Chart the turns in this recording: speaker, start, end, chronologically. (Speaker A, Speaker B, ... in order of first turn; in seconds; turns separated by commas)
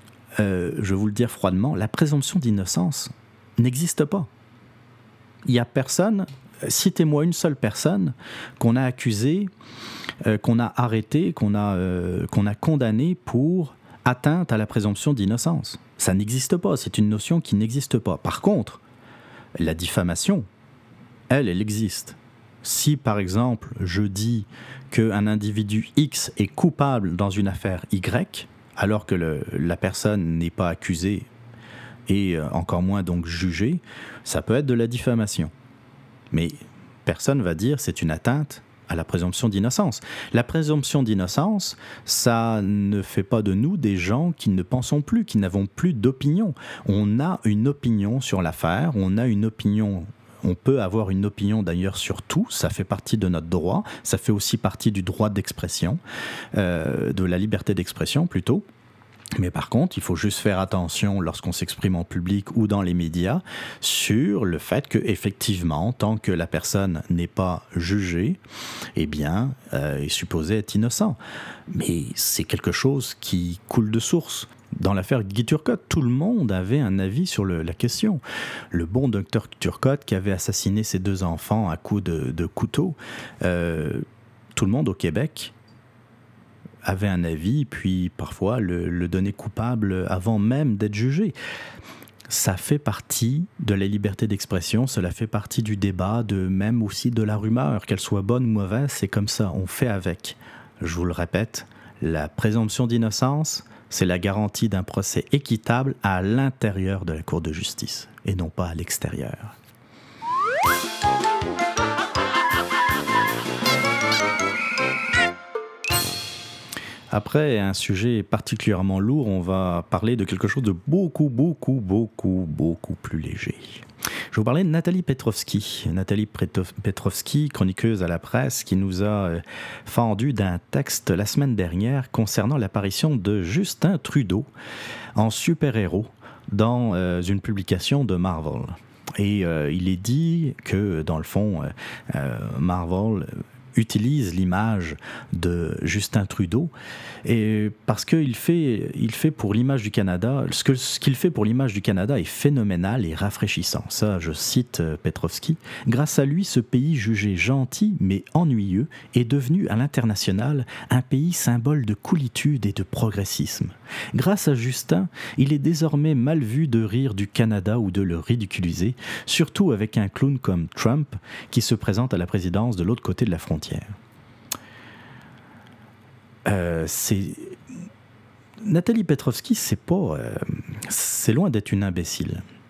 Speaker A: 0.4-4.3, Speaker A: 5.5-9.5, Speaker A: 10.2-18.8, Speaker A: 19.6-20.5, Speaker A: 21.3-31.3, Speaker A: 32.1-35.5, Speaker A: 36.3-56.0, Speaker A: 56.5-58.6, Speaker A: 59.4-68.4, Speaker A: 69.0-71.2, Speaker A: 71.7-78.2, Speaker A: 78.7-84.0, Speaker A: 84.6-85.5, Speaker A: 86.8-91.3, Speaker A: 92.3-109.5, Speaker A: 117.1-134.5, Speaker A: 135.2-146.7, Speaker A: 147.2-173.9, Speaker A: 176.5-177.6, Speaker A: 178.6-182.4